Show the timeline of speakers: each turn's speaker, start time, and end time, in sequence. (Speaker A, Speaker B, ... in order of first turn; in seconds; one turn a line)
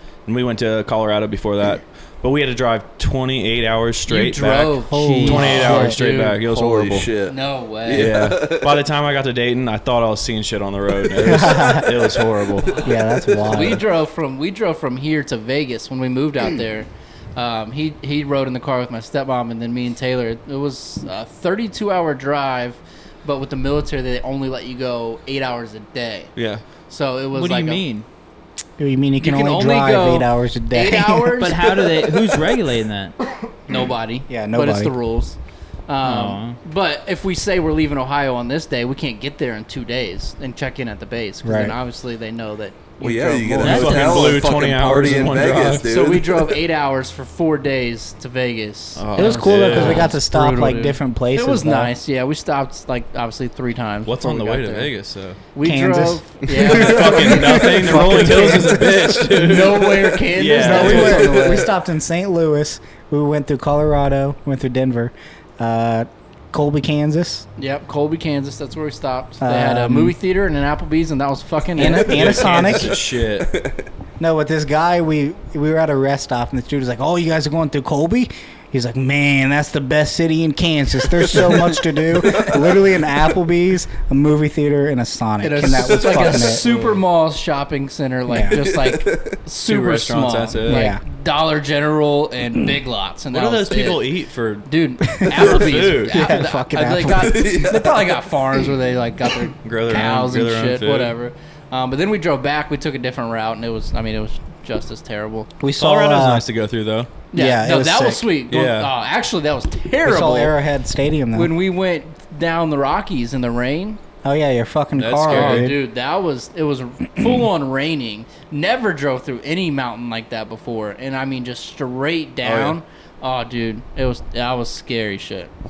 Speaker A: 0.2-7.1
Speaker B: 4.1-6.3
Speaker C: 4.9-5.9
Speaker D: 5.0-5.6
Speaker E: 6.4-8.7
Speaker B: 7.3-8.1
Speaker A: 7.9-12.7
Speaker C: 11.2-11.9
Speaker C: 12.8-13.8
Speaker B: 13.5-26.3
Speaker A: 26.4-26.6
Speaker B: 26.9-27.8
Speaker D: 27.3-28.1
Speaker C: 28.8-31.5
Speaker B: 29.2-31.6
Speaker D: 31.4-33.1
Speaker B: 33.7-35.4
Speaker C: 34.3-34.9
Speaker B: 35.9-44.3
Speaker D: 36.0-36.6
Speaker C: 41.4-41.8
Speaker E: 43.0-46.6
Speaker D: 43.6-44.1
Speaker A: 43.6-45.8
Speaker B: 45.8-54.9
Speaker A: 49.0-50.1
Speaker C: 49.1-51.9
Speaker A: 54.0-55.4
Speaker B: 55.5-58.6
Speaker C: 55.6-59.4
Speaker A: 56.7-61.3
Speaker B: 59.4-61.7
Speaker C: 60.5-67.5
Speaker E: 60.8-61.6
Speaker B: 67.6-72.5
Speaker C: 69.4-70.2
Speaker C: 71.8-73.0
Speaker A: 71.9-73.5
Speaker E: 73.4-73.8
Speaker C: 74.2-86.7
Speaker E: 81.2-83.0
Speaker B: 85.4-94.0
Speaker E: 85.8-86.6
Speaker C: 88.3-88.6
Speaker E: 88.6-89.4
Speaker A: 89.7-90.9
Speaker C: 90.6-91.0
Speaker A: 93.3-94.7
Speaker B: 94.7-105.5
Speaker A: 95.2-96.3
Speaker E: 95.4-95.7
Speaker C: 96.1-97.5
Speaker E: 97.2-98.2
Speaker A: 99.6-101.1
Speaker C: 105.6-106.5
Speaker A: 105.8-107.1
Speaker B: 107.3-110.5
Speaker C: 107.3-108.3
Speaker A: 108.5-108.9
Speaker C: 110.0-111.5
Speaker B: 111.3-114.0
Speaker C: 114.2-115.8
Speaker A: 115.0-115.7
Speaker B: 115.3-125.5
Speaker A: 122.4-122.8